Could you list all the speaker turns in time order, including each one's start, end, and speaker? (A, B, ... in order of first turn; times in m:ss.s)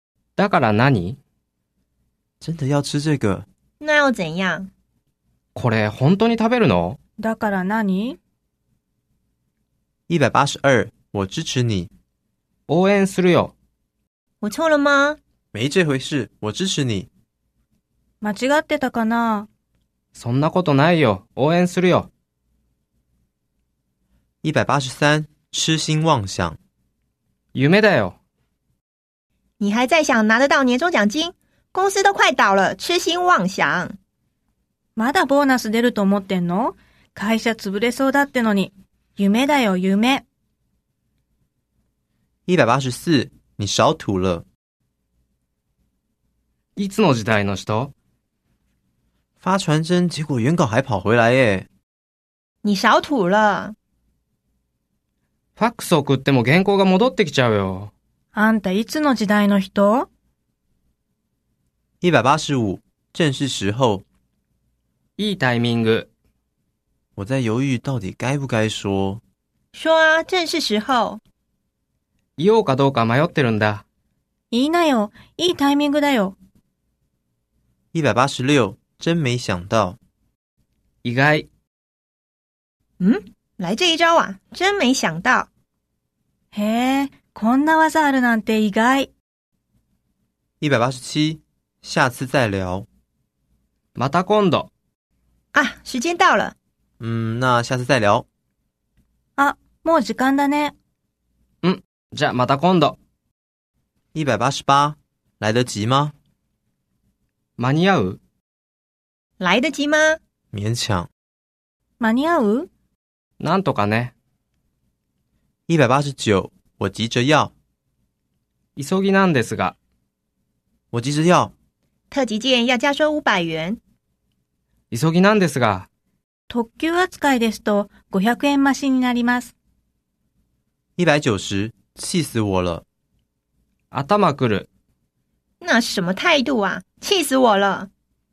0:00.4-0:01.2 A
0:02.4-0:03.5 B
0:03.8-0:04.7 C
0:05.6-0:07.0 A
0:07.2-0:08.2 D
0:10.1-0:11.9 B
0:12.7-0:13.5 A
0:14.4-0:15.2 C
0:15.5-0:17.1 B
0:18.2-0:19.5 D
0:20.1-0:22.1 A
0:24.4-0:26.6 B
0:27.5-0:28.2 A
0:29.6-0:34.0 C
0:35.0-0:40.2 D
0:42.5-0:44.4 B
0:46.8-0:47.9 A
0:49.4-0:51.7 B
0:52.6-0:53.8 C
0:55.6-0:57.9 A
0:58.3-1:00.1 D
1:02.0-1:04.0 B
1:05.2-1:06.1 A
1:07.2-1:09.2 B
1:09.7-1:11.2 C
1:12.4-1:13.8 A
1:14.5-1:16.4 D
1:17.9-1:20.0 B
1:21.0-1:21.5 A
1:23.0-1:25.5 C
1:26.5-1:29.1 D
1:30.6-1:32.9 B
1:34.0-1:34.7 A
1:35.5-1:36.6 C
1:37.0-1:38.3 B
1:39.4-1:40.7 D
1:41.6-1:43.0 A
1:44.1-1:46.1 B
1:47.6-1:48.2 A
1:49.4-1:50.2 C
1:50.5-1:51.1 B
1:52.0-1:52.7 D
1:53.4-1:54.1 A
1:55.7-1:57.5 B
1:58.8-1:59.8 A
2:00.9-2:01.5 B
2:02.1-2:03.8 C
2:04.9-2:05.9 A
2:06.5-2:09.5 D
2:11.0-2:12.8 B
2:13.9-2:14.7 A
2:15.6-2:17.9 C